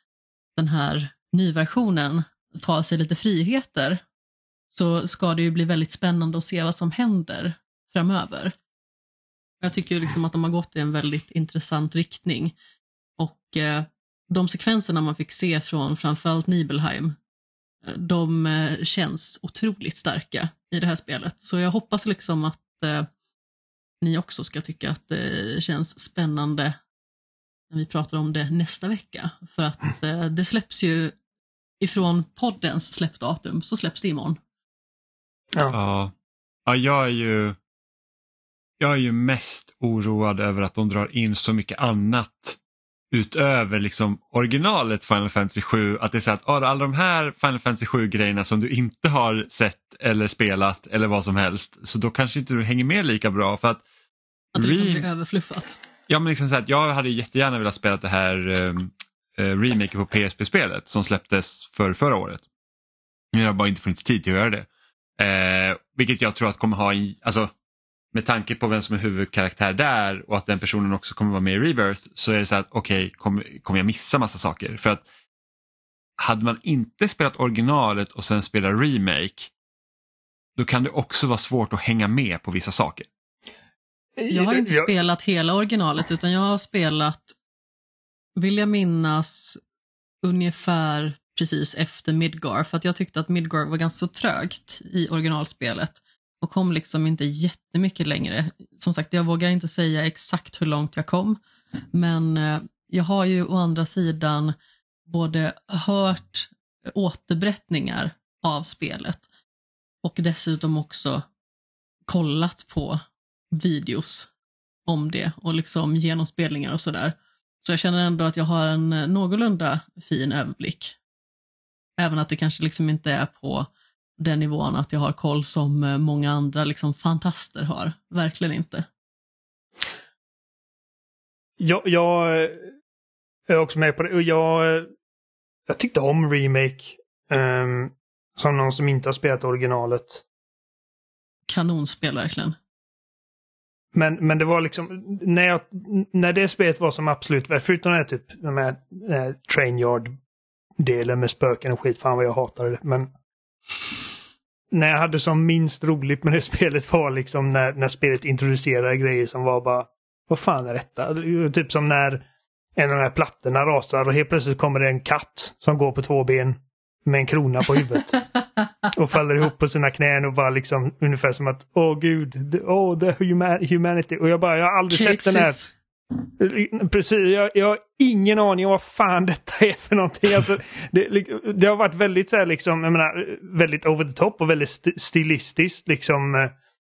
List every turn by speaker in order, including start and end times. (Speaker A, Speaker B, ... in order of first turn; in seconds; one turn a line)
Speaker A: 0.6-4.0
Speaker A: 4.7-8.6
Speaker A: 9.6-12.6
Speaker A: 13.2-17.2
Speaker A: 17.9-23.1
Speaker A: 24.0-26.8
Speaker A: 27.7-31.2
Speaker A: 31.8-34.4
Speaker B: 35.7-36.1
Speaker B: 36.7-37.6
Speaker B: 38.8-42.6
Speaker B: 43.1-53.9
Speaker A: 54.5-55.8
Speaker B: 54.6-55.1
Speaker B: 56.1-62.4
Speaker B: 63.3-67.5
Speaker B: 68.1-75.0
Speaker B: 76.2-79.5
Speaker B: 80.6-83.1
Speaker C: 84.2-84.9
Speaker A: 84.3-87.3
Speaker A: 88.4-89.6
Speaker A: 90.2-101.4
Speaker A: 101.9-104.5
Speaker A: 105.1-109.2
Speaker A: 110.0-111.3
Speaker A: 112.1-113.0
Speaker A: 113.5-114.3
Speaker A: 114.9-121.0
Speaker A: 122.0-128.9
Speaker C: 131.6-132.7
Speaker C: 133.5-134.9
Speaker C: 135.7-140.2
Speaker A: 141.5-142.6
Speaker C: 143.9-150.1
Speaker C: 150.8-153.1
Speaker C: 154.7-162.2
Speaker C: 162.8-168.2
Speaker C: 168.9-175.6
Speaker A: 174.9-175.7
Speaker C: 176.2-186.5